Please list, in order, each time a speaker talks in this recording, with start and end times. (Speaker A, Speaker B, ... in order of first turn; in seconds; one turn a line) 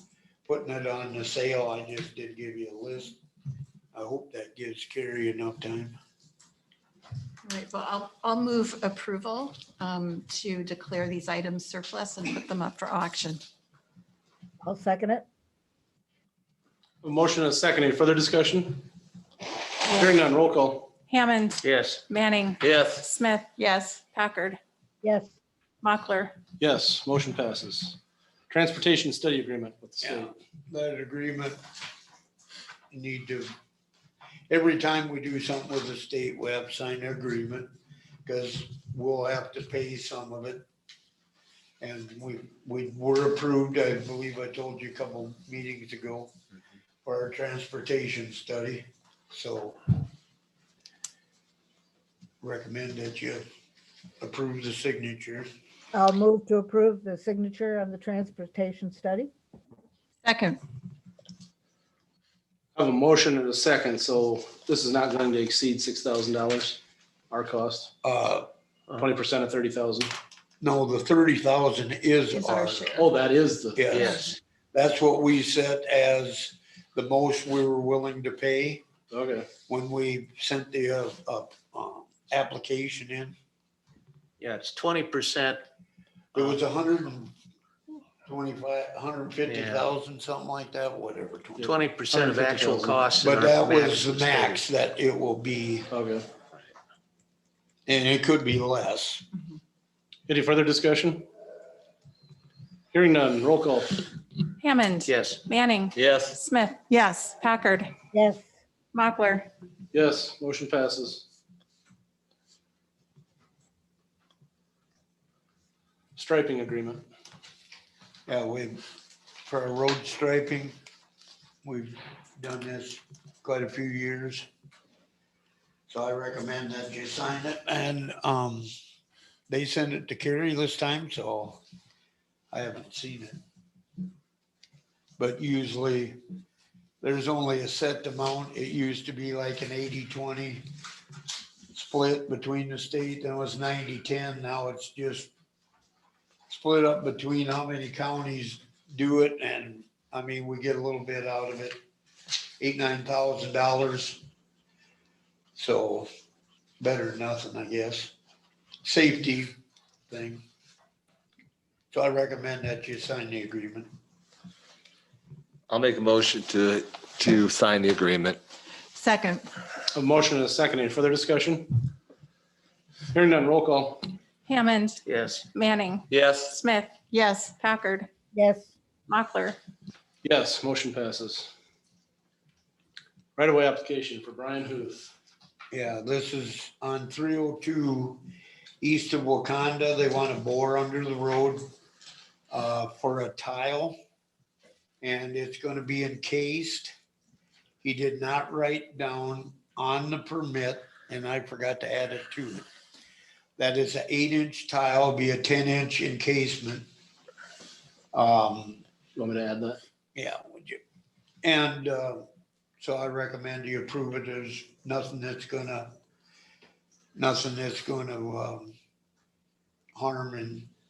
Speaker A: 0.5-3.2
Speaker A: 3.9-6.0
Speaker B: 7.4-13.4
Speaker C: 14.6-15.2
Speaker D: 17.0-18.9
Speaker D: 19.9-20.9
Speaker E: 21.1-24.6
Speaker F: 21.6-22.0
Speaker G: 22.6-23.1
Speaker B: 23.6-24.0
Speaker C: 25.0-25.3
Speaker E: 25.8-26.3
Speaker D: 26.6-28.0
Speaker D: 28.5-30.3
Speaker A: 30.0-31.6
Speaker A: 32.9-33.5
Speaker A: 34.5-37.7
Speaker A: 38.2-40.6
Speaker A: 41.8-46.3
Speaker A: 47.0-49.8
Speaker A: 52.4-53.5
Speaker A: 54.2-55.5
Speaker C: 55.9-59.3
Speaker B: 60.2-60.6
Speaker D: 62.8-67.9
Speaker A: 68.0-68.5
Speaker D: 69.0-70.1
Speaker A: 70.6-72.9
Speaker B: 72.3-73.1
Speaker D: 72.9-74.1
Speaker A: 73.8-78.8
Speaker F: 73.9-74.4
Speaker D: 79.1-79.5
Speaker A: 79.7-83.3
Speaker F: 84.4-85.6
Speaker A: 86.3-87.3
Speaker A: 88.2-91.7
Speaker F: 89.5-89.9
Speaker D: 91.6-93.1
Speaker F: 91.6-94.6
Speaker A: 93.2-95.9
Speaker D: 95.9-96.3
Speaker A: 97.9-99.3
Speaker D: 100.3-101.2
Speaker D: 102.9-104.0
Speaker E: 104.6-107.9
Speaker F: 105.0-105.4
Speaker G: 106.0-106.4
Speaker B: 106.9-107.3
Speaker C: 108.1-108.5
Speaker E: 108.9-109.5
Speaker D: 109.9-111.2
Speaker D: 116.1-117.0
Speaker A: 118.3-118.8
Speaker A: 119.4-120.8
Speaker A: 121.6-124.5
Speaker A: 125.9-128.7
Speaker A: 129.5-131.6
Speaker A: 132.5-133.4
Speaker A: 135.2-136.2
Speaker A: 137.0-140.7
Speaker A: 141.7-145.3
Speaker A: 146.5-151.8
Speaker A: 152.6-154.2
Speaker A: 155.6-156.1
Speaker A: 156.8-158.1
Speaker A: 158.8-159.6
Speaker A: 160.1-160.4
Speaker A: 161.9-163.9
Speaker G: 165.7-168.4
Speaker B: 168.9-169.5
Speaker D: 169.9-171.9
Speaker D: 173.1-174.1
Speaker E: 174.4-175.0
Speaker F: 175.1-175.4
Speaker E: 175.5-178.1
Speaker G: 176.1-176.6
Speaker B: 177.1-177.5
Speaker C: 178.3-178.7
Speaker E: 179.1-179.6
Speaker D: 180.2-181.5
Speaker D: 183.3-185.1
Speaker A: 185.7-188.2
Speaker A: 188.8-191.7
Speaker A: 192.5-193.9
Speaker A: 195.0-196.9
Speaker A: 197.8-202.7
Speaker A: 203.6-206.8
Speaker A: 208.1-208.8
Speaker D: 209.2-209.8
Speaker A: 210.1-210.8
Speaker A: 211.4-212.2
Speaker A: 212.8-215.9
Speaker A: 217.2-218.7
Speaker A: 219.9-220.7